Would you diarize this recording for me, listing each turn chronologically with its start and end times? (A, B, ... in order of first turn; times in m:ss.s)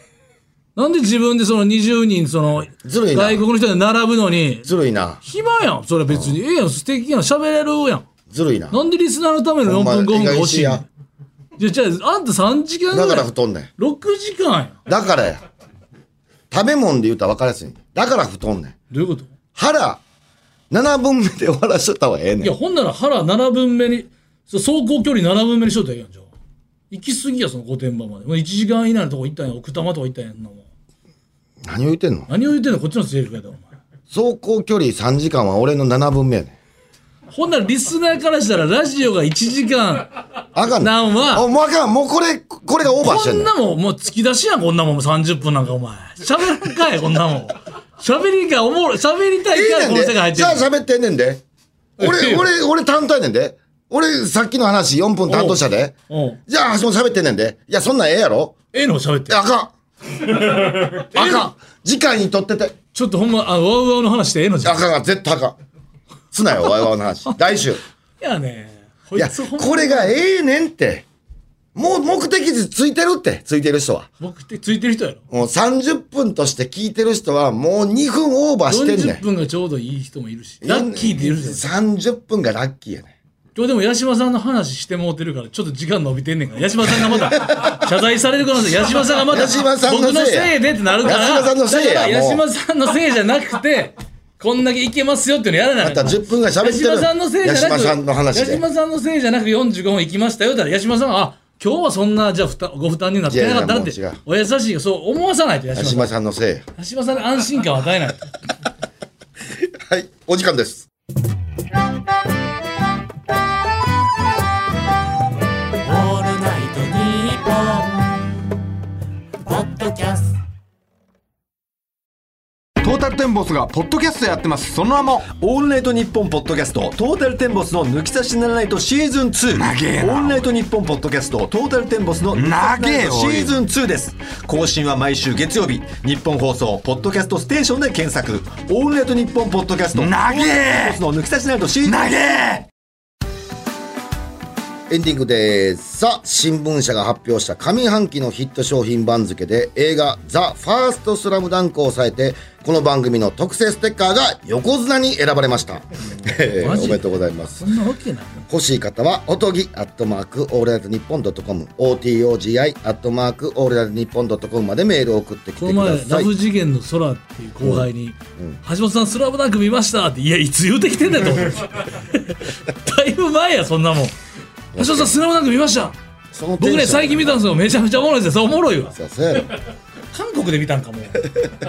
0:00.8-0:04.7 A
0:02.8-0:03.4 B
0:04.7-0:05.2 B
0:05.2-0:08.1 A
0:06.1-0:06.4 B
0:08.3-0:08.8 B
0:08.7-0:10.9 A
0:09.6-0:10.8 B
0:11.6-0:14.8 A
0:12.9-0:13.7 B
0:14.9-0:15.4 B
0:16.5-0:18.8 B
0:18.9-0:19.3 A
0:19.6-0:20.0 B
0:20.7-0:22.5 B
0:22.4-0:26.3 A
0:26.9-0:30.7 A
0:31.6-0:32.3 B
0:32.3-0:33.7 A
0:34.1-0:36.6 B
0:37.3-0:40.2 A
0:40.6-0:43.5 B
0:40.8-0:41.5 A
0:43.0-0:50.7 A
0:49.5-0:51.4 B
0:52.0-0:52.5 A
0:52.0-0:56.0 B
0:55.3-0:56.4 A
0:56.5-0:58.6 B
0:58.7-0:59.4 A
0:59.3-1:02.8 B
1:00.8-1:01.5 A
1:02.9-1:04.9 A
1:04.6-1:05.6 B
1:06.3-1:07.8 B
1:08.2-1:10.2 A
1:09.2-1:11.1 B
1:11.8-1:14.1 B
1:14.2-1:15.3 A
1:15.3-1:19.2 B
1:18.7-1:21.7 A
1:20.6-1:23.2 B
1:23.6-1:46.1 A
1:27.0-1:27.8 B
1:29.3-1:32.4 B
1:35.8-1:38.6 B
1:43.3-1:44.2 B
1:45.7-1:46.7 B
1:46.8-1:48.3 A
1:49.5-1:50.9 B
1:55.8-1:58.4 C
1:59.4-2:00.4 C
2:02.8-2:05.1 D
2:04.1-2:22.6 E
2:09.6-2:10.4 D
2:12.4-2:13.6 D
2:20.0-2:21.0 D
2:21.9-2:22.2 D
2:24.9-2:37.6 B
2:36.1-2:38.5 A
2:38.5-2:46.3 B
2:45.6-2:54.2 A
2:47.6-2:48.6 B
2:54.7-2:55.2 B
2:54.8-2:56.0 A
2:56.3-2:57.4 B
2:56.6-2:59.0 A
2:58.9-2:59.5 B
3:00.1-3:01.3 A